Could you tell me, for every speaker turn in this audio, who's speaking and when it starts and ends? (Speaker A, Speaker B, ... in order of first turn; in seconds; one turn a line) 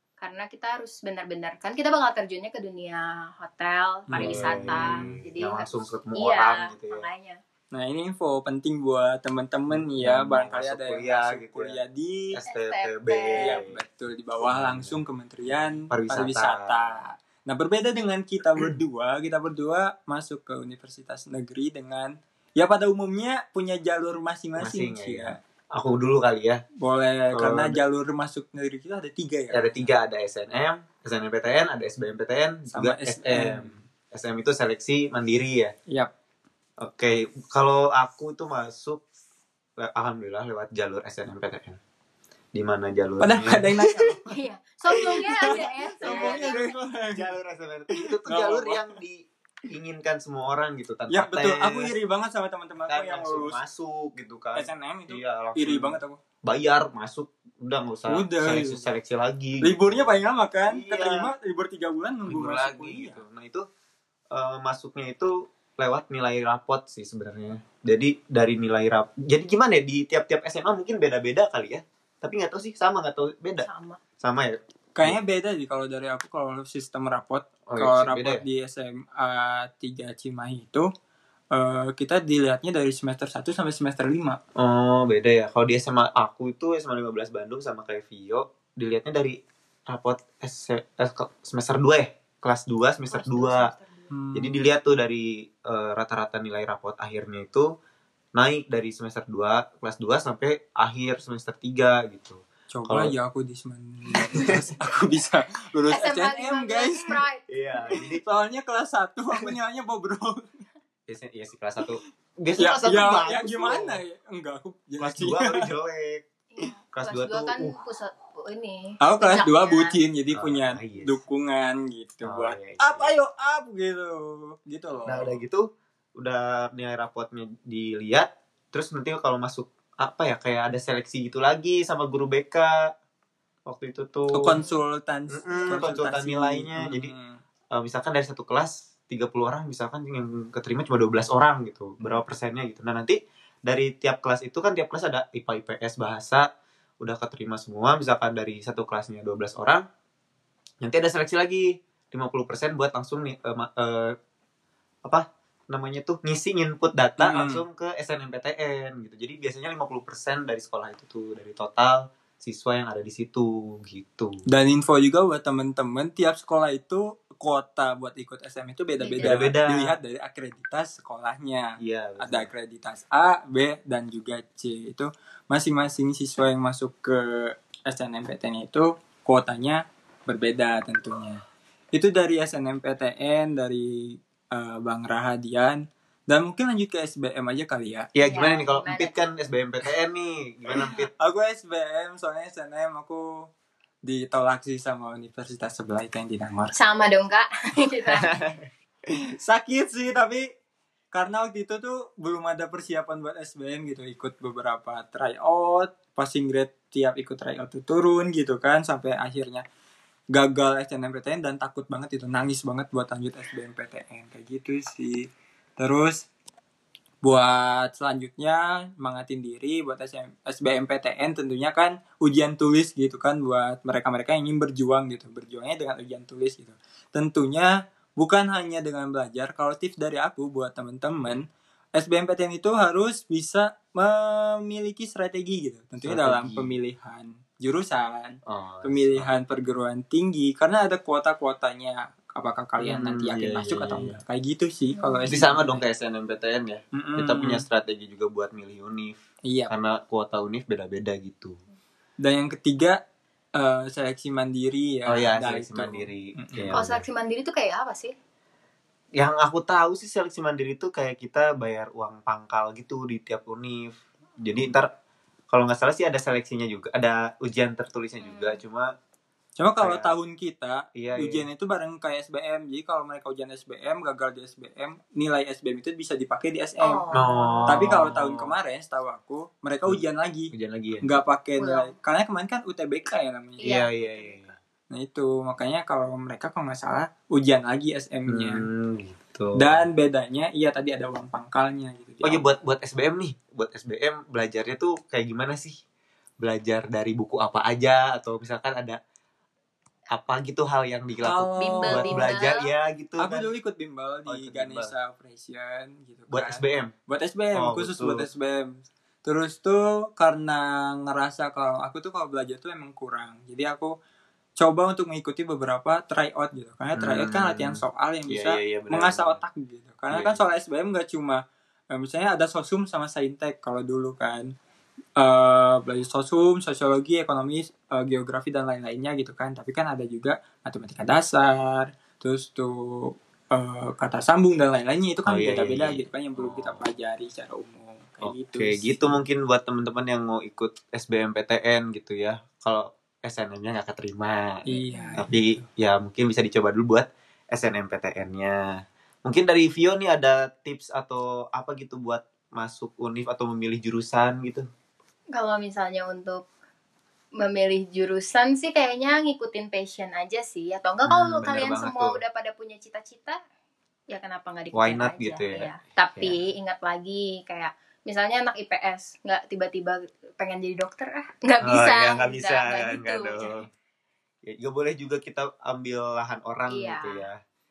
Speaker A: 0.2-7.4
Speaker B: 4.1-5.2
Speaker C: 4.2-7.1
Speaker B: 7.7-12.4
Speaker C: 9.7-11.8
Speaker C: 12.3-13.8
Speaker A: 12.5-13.6
Speaker B: 13.3-25.4
Speaker C: 14.4-15.0
Speaker C: 15.9-17.0
Speaker C: 24.6-26.6
Speaker B: 26.8-29.8
Speaker C: 27.3-27.8
Speaker C: 29.5-35.7
Speaker B: 32.7-33.8
Speaker C: 36.8-39.0
Speaker C: 39.8-41.8
Speaker C: 42.5-44.2
Speaker B: 43.2-44.2
Speaker A: 44.3-46.7
Speaker B: 44.9-47.3
Speaker C: 45.5-46.5
Speaker C: 47.1-51.9
Speaker B: 47.9-48.9
Speaker B: 51.1-53.6
Speaker C: 52.9-61.3
Speaker B: 54.5-56.2
Speaker B: 58.1-58.9
Speaker B: 59.6-63.2
Speaker C: 62.3-63.6
Speaker C: 64.3-73.7
Speaker A: 73.6-74.0
Speaker C: 74.2-75.2
Speaker B: 74.9-80.9
Speaker C: 77.7-78.4
Speaker B: 81.5-84.4
Speaker C: 84.5-93.7
Speaker A: 93.1-94.1
Speaker B: 94.1-94.6
Speaker C: 94.3-97.7
Speaker C: 98.3-103.1
Speaker B: 102.7-107.2
Speaker C: 104.2-104.8
Speaker A: 105.9-107.9
Speaker C: 107.5-108.2
Speaker B: 107.9-110.5
Speaker C: 111.1-114.0
Speaker B: 112.5-115.7
Speaker C: 115.0-116.2
Speaker A: 116.5-120.0
Speaker C: 116.9-117.8
Speaker B: 119.0-125.4
Speaker C: 120.3-121.2
Speaker C: 122.2-123.1
Speaker C: 125.0-132.9
Speaker C: 133.7-134.6
Speaker B: 134.3-137.4
Speaker C: 135.3-137.1
Speaker A: 135.5-135.8
Speaker C: 137.7-146.5
Speaker C: 147.0-149.8
Speaker C: 150.8-154.1
Speaker C: 155.0-164.4
Speaker B: 157.2-157.6
Speaker B: 164.5-181.4
Speaker A: 169.0-169.5
Speaker C: 169.2-170.0
Speaker C: 171.8-172.5
Speaker B: 181.9-188.1
Speaker C: 188.1-191.1
Speaker A: 188.2-189.2
Speaker B: 190.8-193.5
Speaker B: 194.0-196.7
Speaker A: 196.7-198.4
Speaker C: 198.1-198.6
Speaker B: 199.3-200.5
Speaker B: 201.1-209.6
Speaker B: 210.3-215.3
Speaker B: 215.8-216.3
Speaker B: 217.2-245.8
Speaker C: 236.0-236.8
Speaker C: 238.4-239.3
Speaker C: 242.8-244.2
Speaker A: 245.0-245.3
Speaker C: 245.3-249.2
Speaker B: 246.9-247.6
Speaker B: 249.5-249.7
Speaker C: 249.7-251.6
Speaker B: 252.2-253.0
Speaker B: 253.6-256.8
Speaker C: 255.1-257.0
Speaker A: 256.7-258.1
Speaker C: 259.2-264.9
Speaker C: 265.5-268.9
Speaker A: 268.2-268.6
Speaker B: 269.6-277.0
Speaker C: 269.8-270.1
Speaker C: 270.9-271.4
Speaker A: 276.8-277.9
Speaker C: 277.1-278.5
Speaker B: 277.7-283.8
Speaker C: 280.5-281.2
Speaker A: 281.6-281.9
Speaker A: 283.6-284.6
Speaker C: 283.6-284.5
Speaker B: 284.9-288.7
Speaker C: 288.3-289.8
Speaker B: 289.6-292.5
Speaker C: 292.2-295.8
Speaker C: 296.4-299.0
Speaker C: 300.1-303.5
Speaker B: 301.2-302.4
Speaker A: 301.6-302.7
Speaker B: 303.2-313.9
Speaker C: 304.3-304.9
Speaker C: 306.3-306.9
Speaker C: 307.6-308.3
Speaker B: 314.6-324.5
Speaker C: 316.9-319.4
Speaker C: 320.1-320.5
Speaker B: 325.2-339.2
Speaker C: 335.2-336.9
Speaker C: 338.2-354.6
Speaker B: 344.7-345.7
Speaker A: 355.3-356.4
Speaker A: 357.4-363.4
Speaker C: 361.0-362.2
Speaker A: 364.1-373.7
Speaker C: 364.7-366.4
Speaker C: 371.6-373.7
Speaker C: 374.4-377.4
Speaker A: 376.7-377.3